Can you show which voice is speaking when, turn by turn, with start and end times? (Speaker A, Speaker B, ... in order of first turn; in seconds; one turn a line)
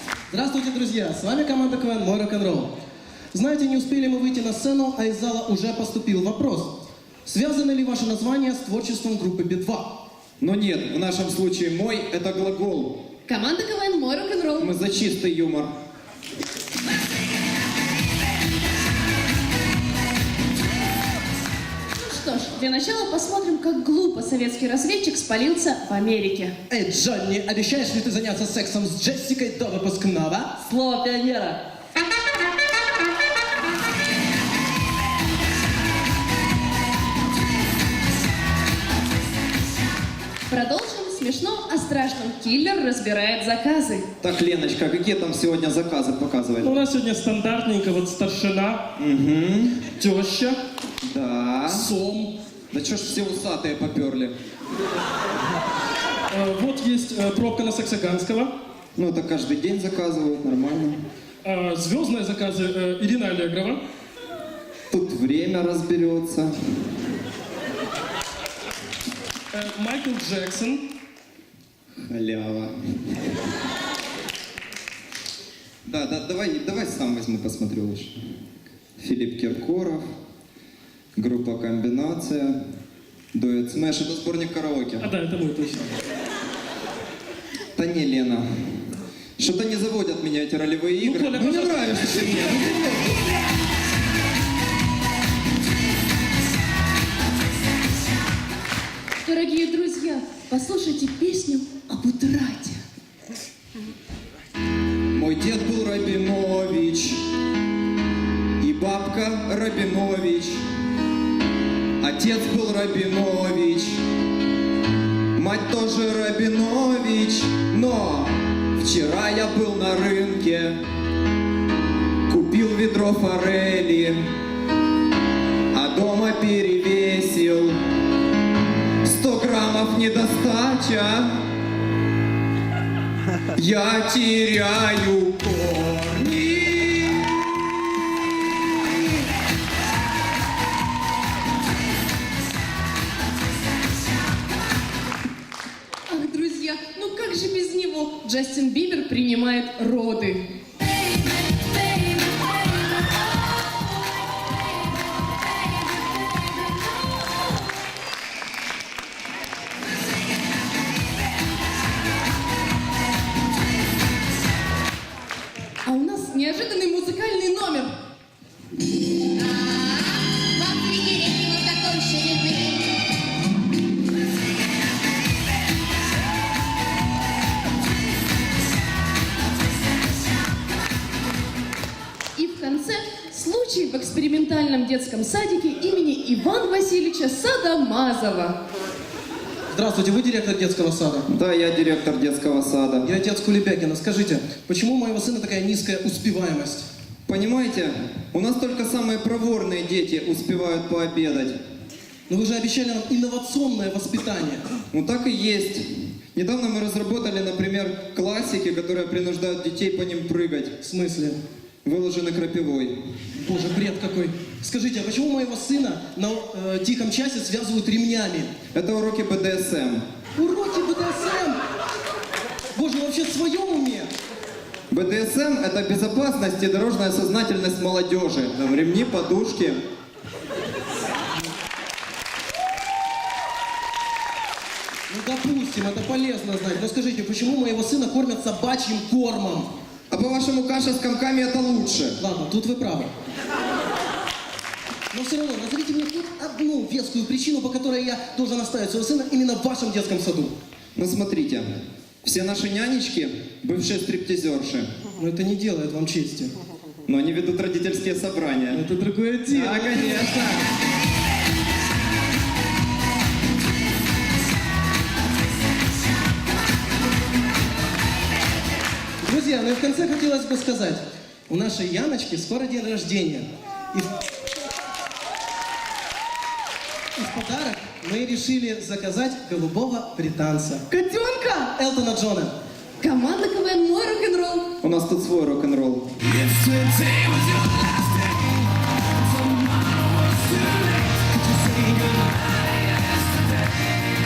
Speaker A: 0.3-2.7
Speaker A: 3.3-10.0
Speaker B: 10.4-13.0
Speaker C: 13.3-14.7
Speaker B: 14.6-15.7
Speaker C: 22.0-26.5
Speaker A: 26.7-30.5
Speaker C: 30.6-31.6
Speaker C: 40.5-44.1
Speaker B: 44.2-46.8
Speaker A: 46.6-48.8
Speaker B: 49.0-49.8
Speaker A: 50.0-50.6
Speaker B: 51.0-51.9
Speaker A: 51.7-52.3
Speaker B: 52.7-54.3
Speaker A: 56.3-58.5
Speaker B: 59.0-61.0
Speaker A: 61.5-63.8
Speaker B: 64.9-66.5
Speaker A: 69.5-70.8
Speaker B: 72.0-72.7
Speaker B: 75.9-78.2
Speaker B: 79.0-80.0
Speaker B: 81.2-82.6
Speaker B: 83.3-85.1
Speaker A: 85.0-85.9
Speaker B: 87.8-88.8
Speaker B: 89.4-93.2
Speaker A: 91.0-92.7
Speaker C: 99.2-102.8
Speaker B: 105.1-107.2
Speaker B: 108.6-110.6
Speaker B: 112.0-113.9
Speaker B: 115.4-120.8
Speaker B: 122.3-124.2
Speaker B: 125.7-127.8
Speaker B: 129.0-131.4
Speaker B: 133.6-138.8
Speaker C: 146.1-150.4
Speaker C: 151.6-152.4
Speaker C: 165.8-167.9
Speaker C: 170.8-172.5
Speaker C: 182.4-188.6
Speaker A: 189.7-191.3
Speaker B: 191.3-193.1
Speaker A: 193.0-196.9
Speaker B: 197.3-201.6
Speaker A: 202.3-204.6
Speaker B: 204.9-210.8
Speaker A: 210.8-211.4
Speaker B: 211.8-213.0
Speaker A: 213.4-218.5
Speaker B: 218.7-220.0
Speaker A: 220.4-221.6
Speaker A: 222.8-224.1
Speaker B: 224.9-229.8
Speaker A: 235.1-239.7
Speaker B: 240.1-242.2
Speaker A: 242.2-243.1
Speaker A: 245.1-250.5
Speaker B: 251.0-251.7
Speaker B: 252.2-254.9
Speaker A: 255.2-256.5
Speaker B: 257.1-258.8
Speaker A: 258.7-260.5
Speaker B: 259.5-260.6
Speaker A: 269.2-274.2
Speaker A: 277.2-280.9
Speaker C: 280.9-281.7
Speaker A: 281.8-282.5
Speaker C: 283.0-284.7
Speaker B: 284.8-286.1
Speaker D: 286.3-288.5
Speaker D: 289.3-293.2